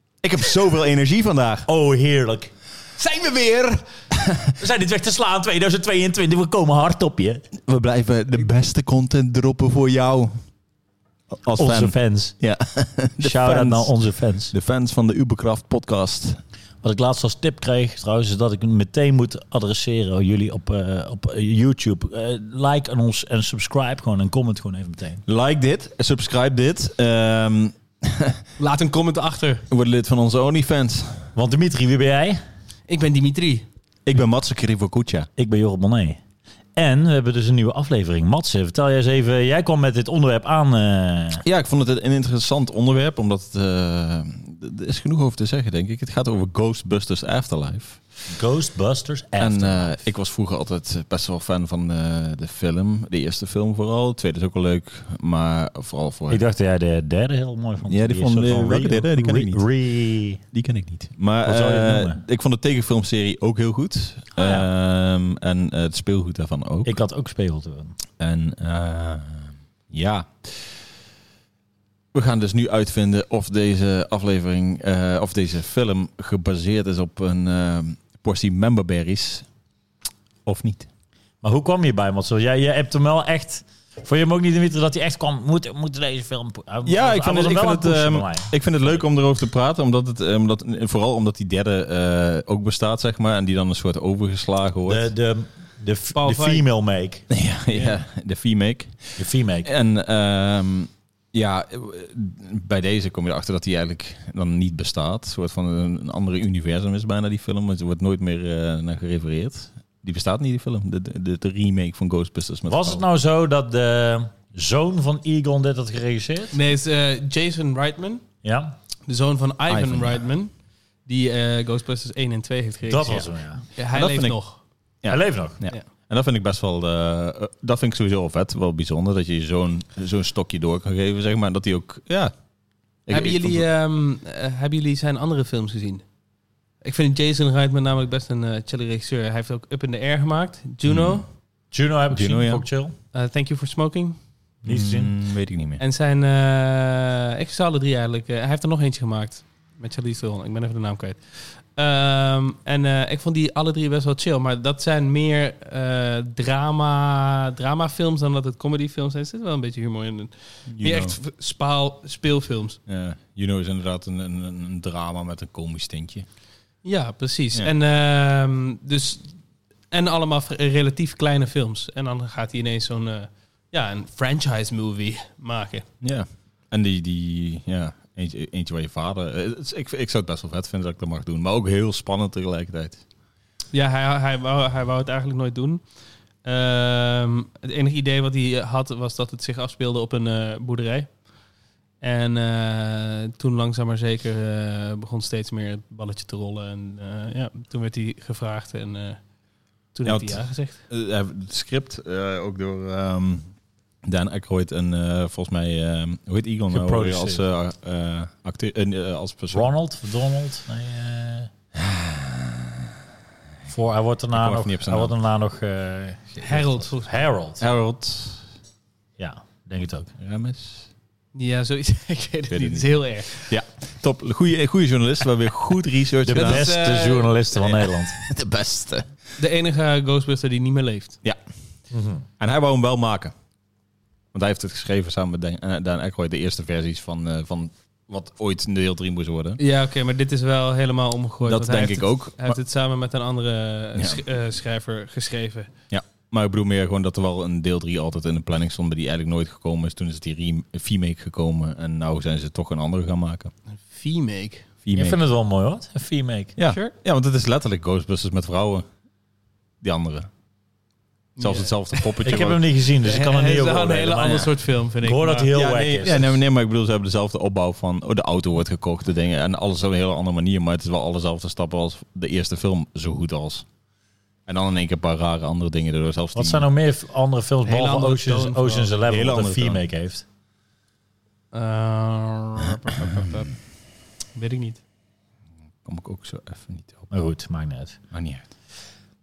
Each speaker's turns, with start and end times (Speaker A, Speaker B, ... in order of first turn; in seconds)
Speaker A: 0.2-1.7, 7.7-10.4, 11.4-13.9, 14.5-16.4, 25.3-28.4, 29.7-31.3, 34.1-35.3, 41.4-48.0, 49.4-56.4, 57.9-59.6, 60.5-66.9, 68.2-70.8, 72.1-79.5, 80.5-80.9, 86.8-95.1, 97.3-113.0, 119.7-120.2, 123.9-124.4, 125.0-132.3, 133.1-133.6, 140.9-141.2, 142.1-142.6, 144.7-145.8, 160.7-161.2, 162.9-166.3, 176.0-183.0, 200.1-203.5, 204.0-209.7, 211.8-212.7, 214.3-215.1, 217.6-218.5, 220.2-220.9, 222.5-226.7, 228.2-229.1, 232.4-233.3, 234.3-239.6, 241.4-242.6, 244.0-244.2, 245.9-253.5, 254.8-255.2, 256.6-258.9, 259.8-260.3, 261.4-262.6, 265.5-273.7, 274.5-276.6, 279.1-279.8, 283.1-283.4, 285.8-287.1, 288.1-288.5
Speaker B: 1.7-2.5, 4.6-7.5, 11.6-12.4, 13.2-14.5, 16.8-25.2, 31.4-32.4, 35.4-36.2, 36.8-41.4, 48.3-50.0, 56.3-60.4, 61.5-62.2, 64.4-64.7, 66.8-68.0, 81.4-89.0, 94.9-97.3, 99.2-99.7, 112.7-116.6, 118.4-118.8, 122.9-123.6, 125.1-125.6, 141.7-142.9, 144.6-145.1, 206.7-207.4, 209.5-211.5, 213.7-217.6, 219.2-220.1, 226.2-228.2, 231.9-232.2, 254.9-256.6, 262.2-264.5, 265.0-266.3, 276.4-280.2, 287.1-288.0
Speaker C: 3.0-3.8, 28.6-29.6, 32.9-33.7, 96.2-96.6, 116.5-118.2, 119.1-124.6, 133.1-136.0, 136.8-141.2, 143.1-144.2, 145.8-162.8, 166.8-169.3, 169.9-175.9, 183.7-185.8, 186.4-191.2, 192.0-199.2, 199.9-200.8, 216.4-217.3, 221.3-223.5, 226.3-227.7, 229.4-231.2, 239.6-245.7, 253.9-254.7, 256.6-256.9, 261.4-262.4, 263.0-265.5, 277.7-279.1, 281.5-283.5, 284.4-284.8